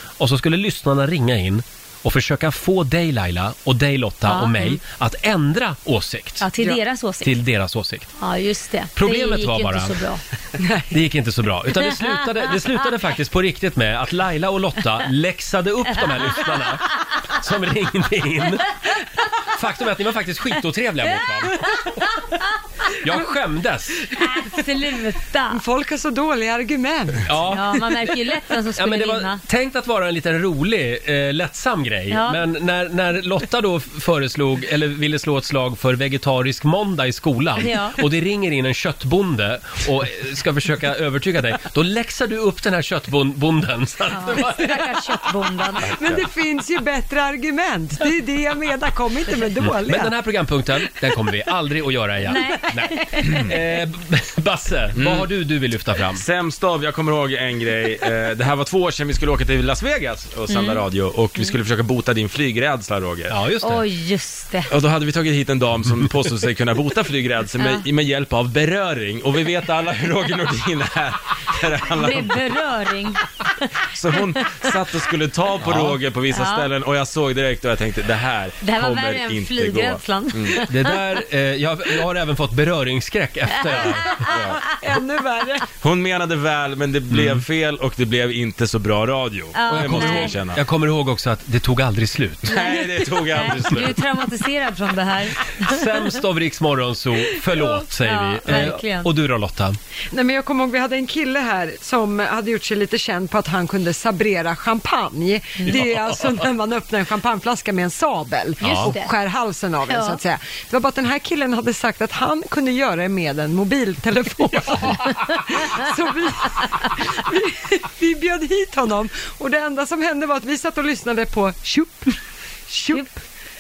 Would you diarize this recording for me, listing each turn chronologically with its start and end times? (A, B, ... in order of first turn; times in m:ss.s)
0:00.2-0:06.5 A
0:04.3-0:04.8 B
0:06.4-0:07.3 B
0:07.2-0:08.1 A
0:08.2-0:10.2 B
0:09.0-0:10.0 A
0:10.6-0:10.9 C
0:10.9-0:18.8 A
0:19.5-0:22.0 A
0:23.0-0:24.0 A
0:24.2-0:25.6 B
0:25.5-0:27.3 C
0:27.3-0:27.9 A
0:27.5-0:29.4 B
0:28.8-0:44.8 A
0:32.1-0:32.4 B
0:37.6-0:38.0 B
0:44.2-0:45.9 B
0:45.9-0:50.1 C
0:49.6-0:56.2 A
0:52.3-0:53.4 B
0:55.0-0:55.3 D
0:56.2-1:03.4 D
1:00.5-1:00.8 B
1:03.3-1:03.8 A
1:03.6-1:04.7 B
1:04.7-1:12.5 D
1:12.0-1:13.2 B
1:13.9-1:20.6 D
1:14.2-1:14.7 B
1:15.6-1:16.0 A
1:16.3-1:16.7 B
1:18.6-1:21.0 B
1:20.7-1:24.2 A
1:24.3-1:24.6 D
1:24.6-1:25.6 C
1:25.8-1:30.6 D
1:27.1-1:27.4 A
1:29.6-1:30.4 B
1:29.7-1:32.6 A
1:32.5-1:34.0 D
1:32.5-1:35.8 B
1:33.4-1:34.0 A
1:35.6-1:39.8 A
1:37.6-1:39.1 B
1:40.1-2:02.2 C
1:48.6-1:49.0 A
1:48.7-1:49.2 B
1:49.9-1:50.2 B
2:02.7-2:03.1 C